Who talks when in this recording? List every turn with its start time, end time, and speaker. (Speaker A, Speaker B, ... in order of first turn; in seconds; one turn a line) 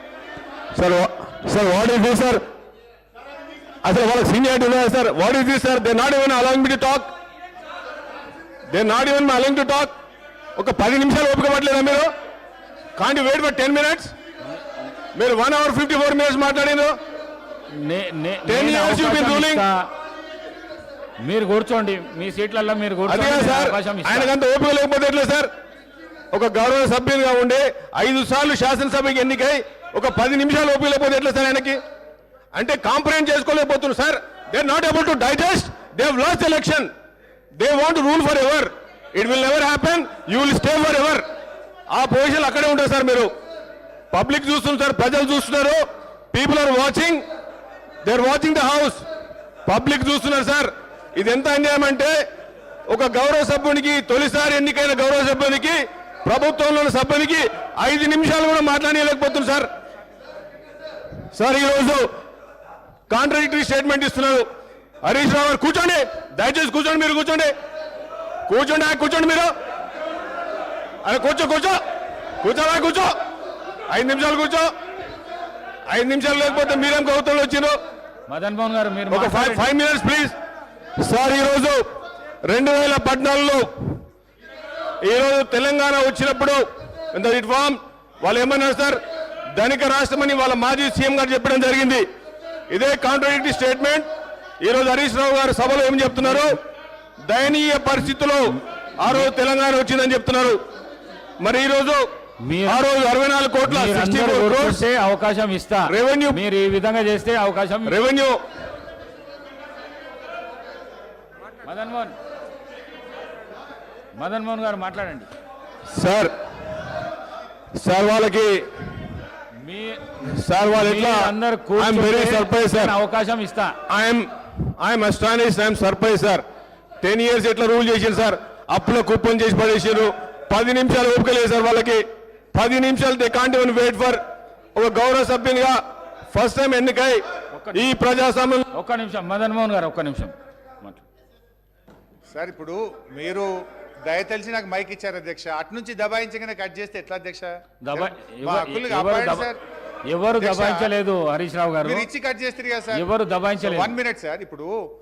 Speaker A: 0.7-2.4
Speaker A: 3.8-7.1
Speaker A: 8.7-9.9
Speaker A: 10.6-12.1
Speaker A: 12.9-14.1
Speaker A: 15.1-16.9
Speaker B: 17.7-19.9
Speaker A: 18.5-19.6
Speaker B: 21.2-24.3
Speaker A: 23.1-25.5
Speaker A: 26.3-31.8
Speaker A: 32.5-36.9
Speaker A: 37.5-41.2
Speaker A: 41.9-43.3
Speaker A: 44.1-47.2
Speaker A: 48.0-49.0
Speaker A: 49.6-52.1
Speaker A: 52.9-59.7
Speaker A: 61.3-62.0
Speaker A: 63.1-64.5
Speaker A: 65.0-67.5
Speaker A: 68.5-69.5
Speaker A: 71.0-71.8
Speaker A: 72.4-73.1
Speaker A: 73.9-74.7
Speaker A: 75.9-77.8
Speaker B: 78.3-79.7
Speaker A: 79.1-80.3
Speaker A: 81.0-81.8
Speaker A: 82.4-84.0
Speaker A: 85.0-86.6
Speaker A: 87.1-89.0
Speaker A: 89.5-92.0
Speaker A: 92.7-94.1
Speaker A: 94.6-96.6
Speaker A: 97.2-100.6
Speaker A: 101.4-102.1
Speaker B: 102.4-102.8
Speaker A: 102.7-104.8
Speaker B: 103.6-107.9
Speaker A: 105.9-106.4
Speaker A: 107.8-108.4
Speaker B: 111.6-112.2
Speaker B: 114.1-115.3
Speaker A: 115.9-116.3
Speaker A: 117.8-118.9
Speaker B: 119.5-120.1
Speaker A: 120.3-122.9
Speaker B: 120.7-123.8
Speaker A: 123.9-126.4
Speaker A: 127.0-134.2
Speaker A: 134.7-137.2
Speaker B: 137.5-137.8
Speaker A: 137.7-138.6
Speaker B: 138.7-141.0
Speaker C: 142.3-143.5
Speaker C: 144.1-149.6
Speaker B: 147.8-149.5
Speaker B: 150.1-152.1
Speaker C: 150.3-150.9
Speaker C: 151.8-153.0
Speaker B: 152.9-153.9
Speaker C: 153.6-154.7